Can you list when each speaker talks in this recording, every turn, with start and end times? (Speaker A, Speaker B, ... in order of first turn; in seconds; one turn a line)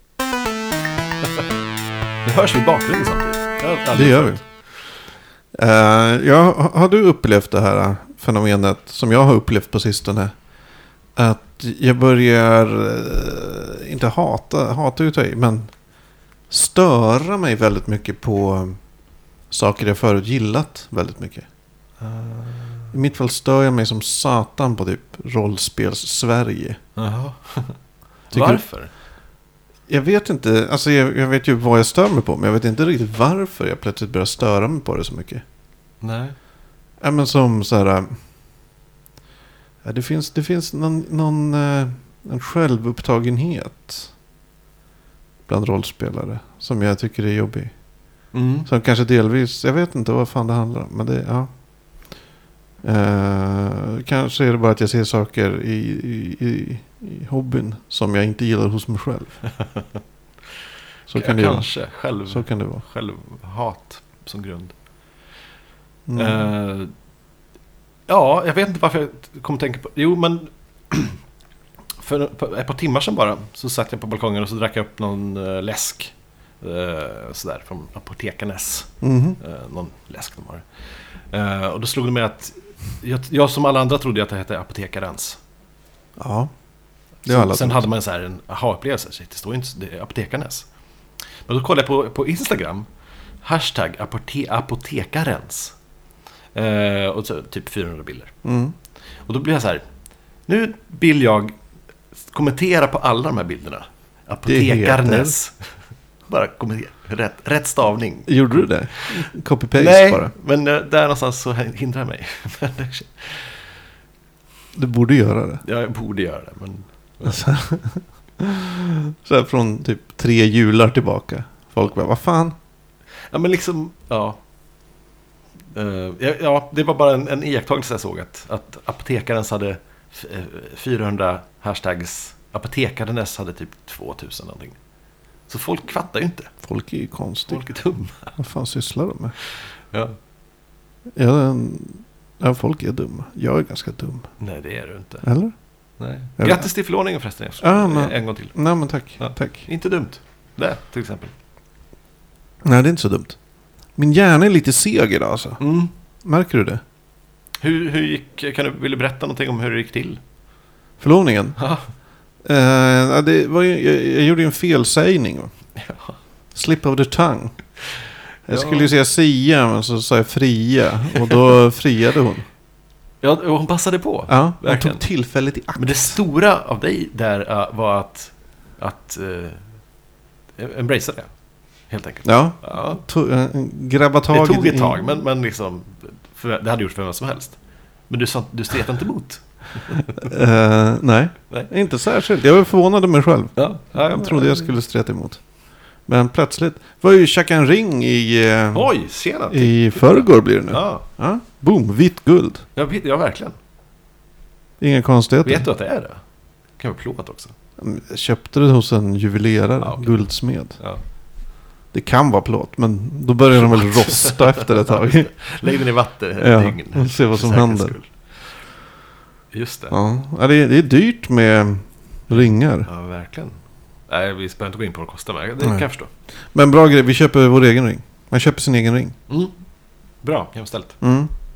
Speaker A: 2.2-4.4
Speaker B: 3.9-4.4
Speaker B: 5.5-10.3
Speaker B: 11.2-15.7
Speaker B: 16.5-18.8
Speaker B: 19.5-21.4
Speaker A: 22.0-22.9
Speaker B: 22.9-26.8
Speaker A: 26.9-27.8
Speaker A: 28.3-28.9
Speaker B: 28.3-28.6
Speaker B: 29.9-35.4
Speaker A: 36.0-36.3
Speaker B: 37.0-38.1
Speaker B: 39.8-44.1
Speaker B: 45.5-47.7
Speaker A: 48.3-48.7
Speaker B: 48.6-51.5
Speaker B: 52.8-59.4
Speaker A: 59.5-60.0
Speaker B: 61.1-61.7
Speaker A: 61.1-64.7
Speaker B: 62.3-62.8
Speaker B: 66.1-66.5
Speaker A: 66.1-66.9
Speaker A: 68.1-71.2
Speaker A: 72.0-85.4
Speaker B: 79.0-79.4
Speaker B: 86.2-86.5
Speaker A: 87.2-90.7
Speaker B: 87.2-87.9
Speaker A: 91.5-92.8
Speaker A: 93.4-95.7
Speaker A: 96.5-98.3
Speaker B: 98.4-98.7
Speaker A: 99.2-99.8
Speaker A: 100.5-101.5
Speaker A: 102.3-105.7
Speaker B: 104.5-105.3
Speaker A: 106.3-113.7
Speaker B: 108.3-110.3
Speaker B: 114.7-115.6
Speaker A: 115.6-117.4
Speaker B: 117.2-122.5
Speaker A: 123.3-124.4
Speaker A: 125.7-134.8
Speaker A: 135.5-136.5
Speaker B: 136.6-137.7
Speaker A: 137.5-138.3
Speaker B: 138.3-139.3
Speaker A: 139.5-140.2
Speaker B: 141.1-144.3
Speaker A: 144.4-145.3
Speaker B: 145.2-145.5
Speaker A: 146.0-148.6
Speaker B: 146.4-146.7
Speaker B: 147.6-149.7
Speaker A: 149.2-151.3
Speaker B: 152.6-153.4
Speaker B: 153.9-155.6
Speaker A: 155.6-155.9
Speaker B: 156.2-156.8
Speaker A: 157.6-160.2
Speaker B: 161.0-161.6
Speaker A: 161.6-161.8
Speaker B: 162.4-165.5
Speaker A: 165.8-166.2
Speaker B: 166.5-167.6
Speaker B: 168.5-172.4
Speaker A: 168.5-168.9
Speaker A: 173.2-175.0
Speaker B: 174.3-176.2
Speaker A: 175.7-179.7
Speaker A: 180.6-181.3
Speaker A: 181.9-183.0
Speaker B: 182.2-185.0
Speaker A: 184.3-187.6
Speaker A: 188.1-190.3
Speaker B: 190.2-195.4
Speaker A: 193.6-194.7
Speaker B: 196.1-198.9
Speaker A: 198.7-201.1
Speaker B: 199.5-202.6
Speaker A: 202.7-203.6
Speaker B: 204.8-205.7
Speaker A: 205.4-206.2
Speaker A: 206.8-207.5
Speaker B: 207.8-210.8
Speaker A: 209.8-210.2
Speaker B: 211.9-215.4
Speaker A: 213.5-218.4
Speaker B: 216.4-217.9
Speaker A: 219.5-219.9
Speaker B: 219.9-222.9
Speaker A: 222.3-223.6
Speaker A: 224.1-226.1
Speaker B: 225.6-225.8
Speaker B: 226.5-229.1
Speaker A: 230.2-231.0
Speaker B: 231.0-231.3